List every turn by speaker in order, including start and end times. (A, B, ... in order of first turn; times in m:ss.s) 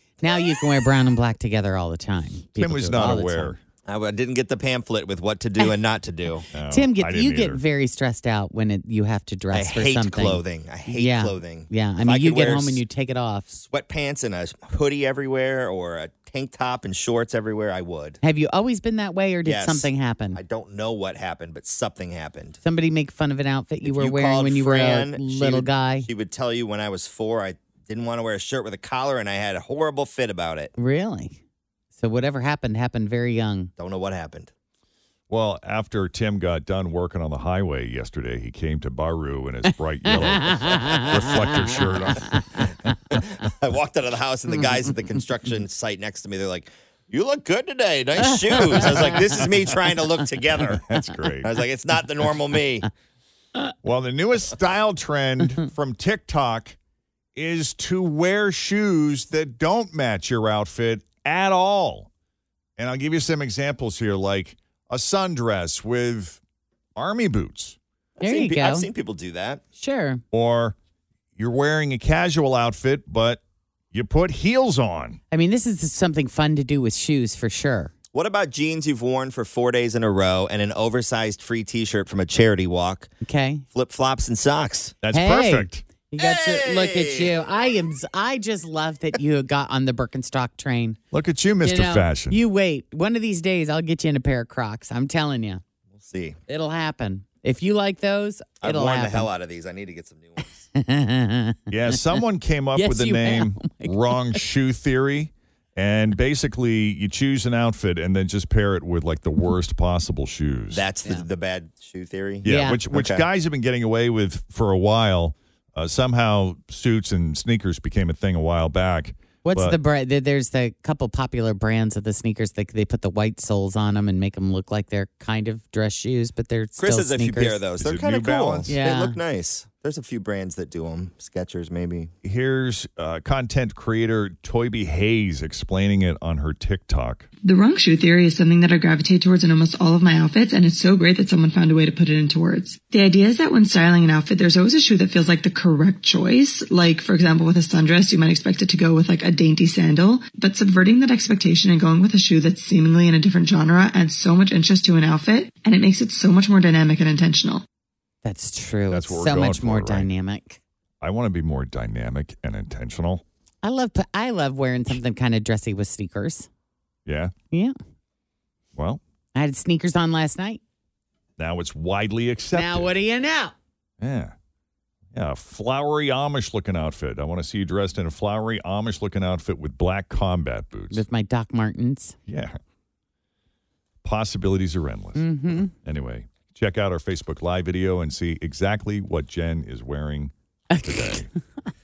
0:00.2-0:03.5 A
0:02.6-0:03.6 B
0:03.9-0:06.4 C
0:06.5-0:07.6 B
0:06.6-0:13.5 A
0:09.5-0:12.8 C
0:13.6-0:18.2 C
0:18.2-0:20.4 A
0:19.4-0:22.6 C
0:22.6-0:26.1 A
0:23.8-0:30.7 C
0:30.8-0:31.4 A
0:32.0-0:33.7 A
0:33.8-0:34.5 C
0:35.3-0:42.4 B
0:40.1-0:42.4 A
0:43.1-0:50.8 C
0:48.6-0:49.3 A
0:50.5-0:51.5 B
0:51.4-0:52.9 C
0:53.8-0:56.8 B
0:57.4-1:02.1 B
1:02.8-1:06.4 B
1:07.0-1:07.8 B
1:08.2-1:08.9 A
1:08.2-1:09.6 C
1:09.8-1:10.2 A
1:10.3-1:10.8 B
1:11.4-1:15.2 B
1:15.3-1:17.9 A
1:18.1-1:23.1 C
1:23.2-1:23.6 A
1:23.7-1:25.0 C
1:25.0-1:25.8 B
1:25.1-1:31.0 A
1:26.2-1:27.4 C
1:31.1-1:32.4 B
1:31.6-1:35.6 A
1:35.9-1:36.4 C
1:36.5-1:39.3 A
1:38.6-1:40.6 C
1:40.7-1:42.0 A
1:41.7-1:50.8 B
1:42.7-1:44.4 A
1:50.7-1:53.2 C
1:52.4-1:59.8 B
1:52.4-1:52.8 A
1:59.4-2:07.6 A
2:06.8-2:12.1 C
2:07.8-2:08.7 B
2:08.7-2:09.1 A
2:12.2-2:17.3 B
2:17.4-2:37.6 D
2:38.2-2:40.6 A
2:38.9-2:40.1 B
2:41.0-2:43.2 B
2:43.6-2:46.5 A
2:47.0-2:47.3 B
2:48.7-2:49.0 B
2:49.3-2:50.6 A
2:51.4-2:52.9 B
2:52.5-2:53.5 A
2:54.0-2:54.3 B
2:55.1-3:01.0 B
3:00.9-3:02.2 A
3:02.3-3:02.6 B
3:04.0-3:11.3 B
3:05.2-3:05.7 A
3:10.7-3:11.2 A